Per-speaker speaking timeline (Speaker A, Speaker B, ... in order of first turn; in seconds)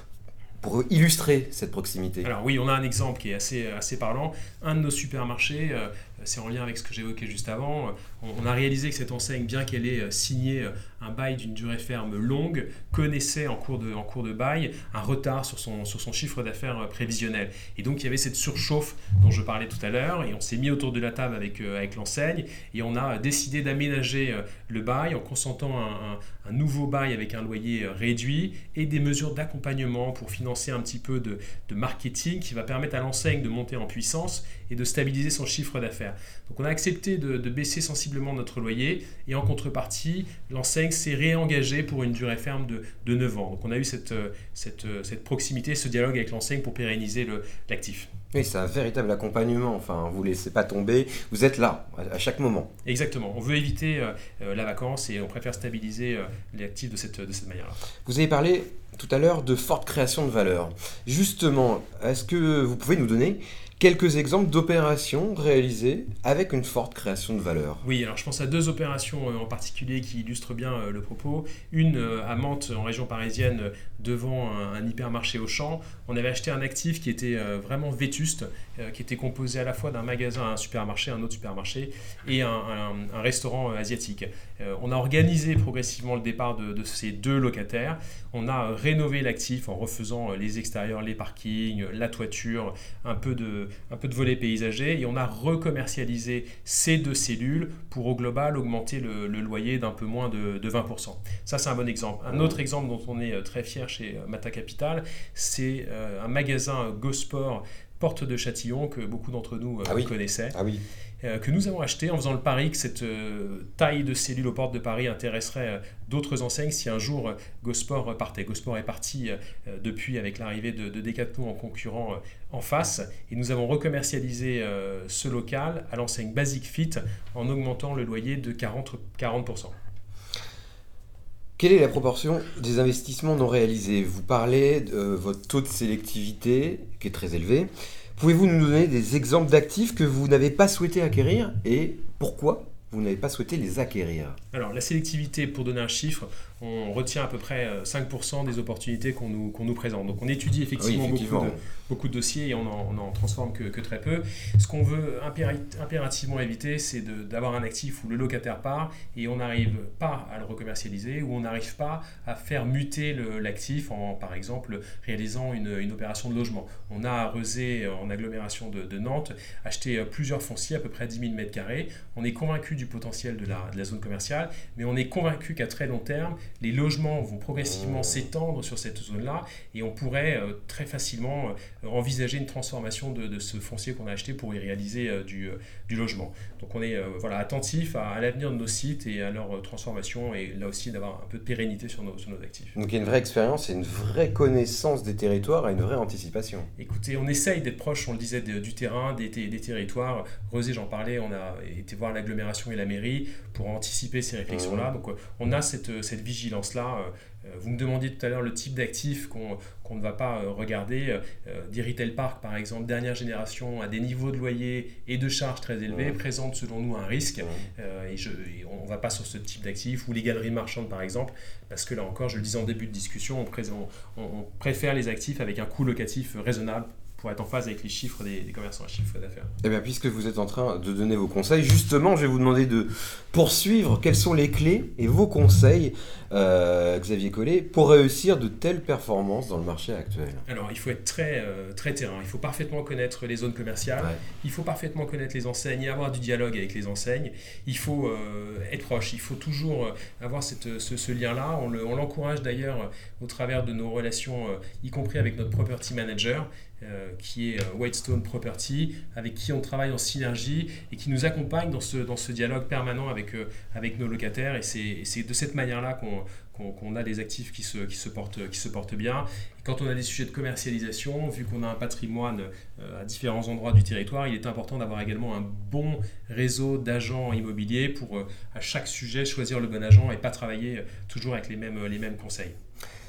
Speaker A: 0.6-2.3, 48.3-52.7, 58.0-67.8, 102.3-102.6, 109.8-110.8, 131.6-144.4, 150.8-151.6, 177.6-178.3, 192.8-196.7, 204.5-204.9, 215.9-216.2, 217.4-217.7, 229.6-240.4
Speaker B: 2.2-48.1, 52.9-57.8, 67.8-110.6, 111.2-129.8, 144.5-192.8, 196.8-229.5, 240.5-282.6